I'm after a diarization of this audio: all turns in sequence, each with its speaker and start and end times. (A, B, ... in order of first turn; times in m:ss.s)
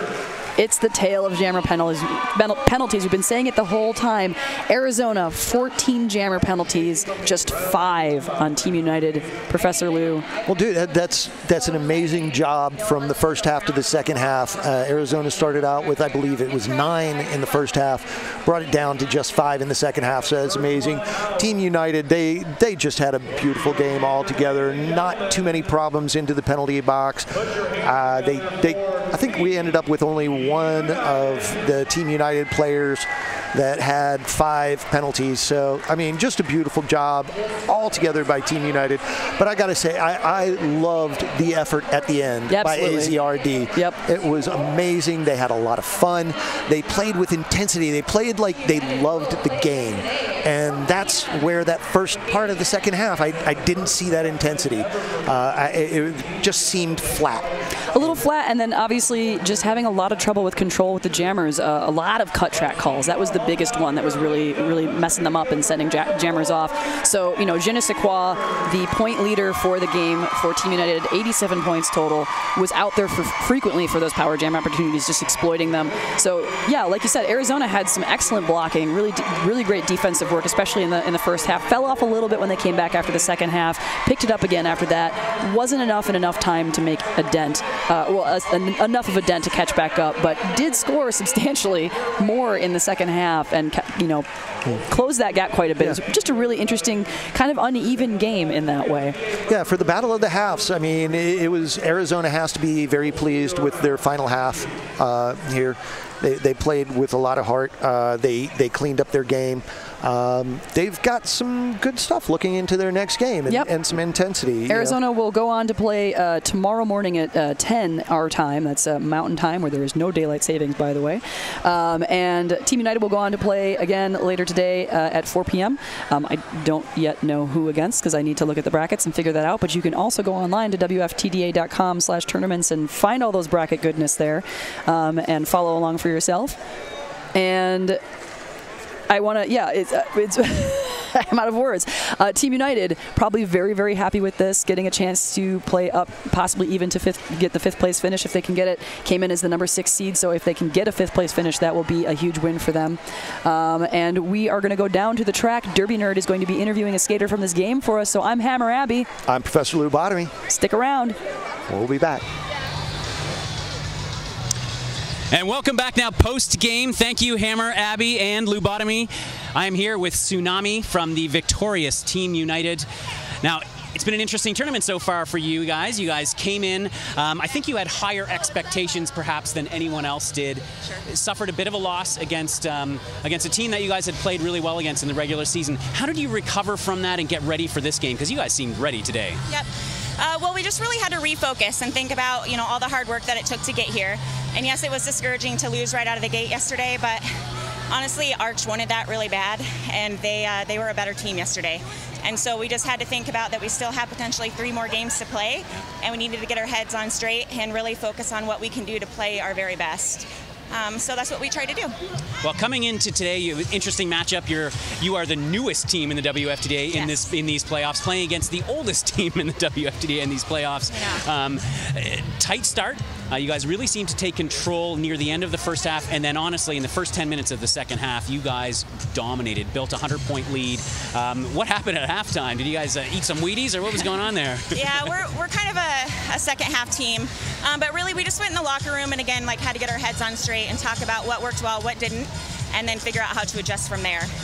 0:00.6-0:10.3 A
0:10.4-0:27.3 B
0:27.8-0:57.5 B
0:42.5-0:43.2 A
0:57.9-1:34.3 A
1:34.8-1:39.2 A
1:39.5-1:55.0 B
1:54.7-2:16.6 A
2:17.4-2:18.0 A
2:19.1-2:39.1 A
2:39.3-2:40.3 B
2:40.5-2:41.2 A
2:41.7-2:42.2 B
2:45.3-2:52.8 C
2:53.4-3:09.4 C
3:09.5-3:17.2 D
3:17.9-3:31.9 D
3:32.4-3:55.2 C
3:36.9-3:37.3 D
3:40.9-3:41.2 D
3:54.7-4:04.3 D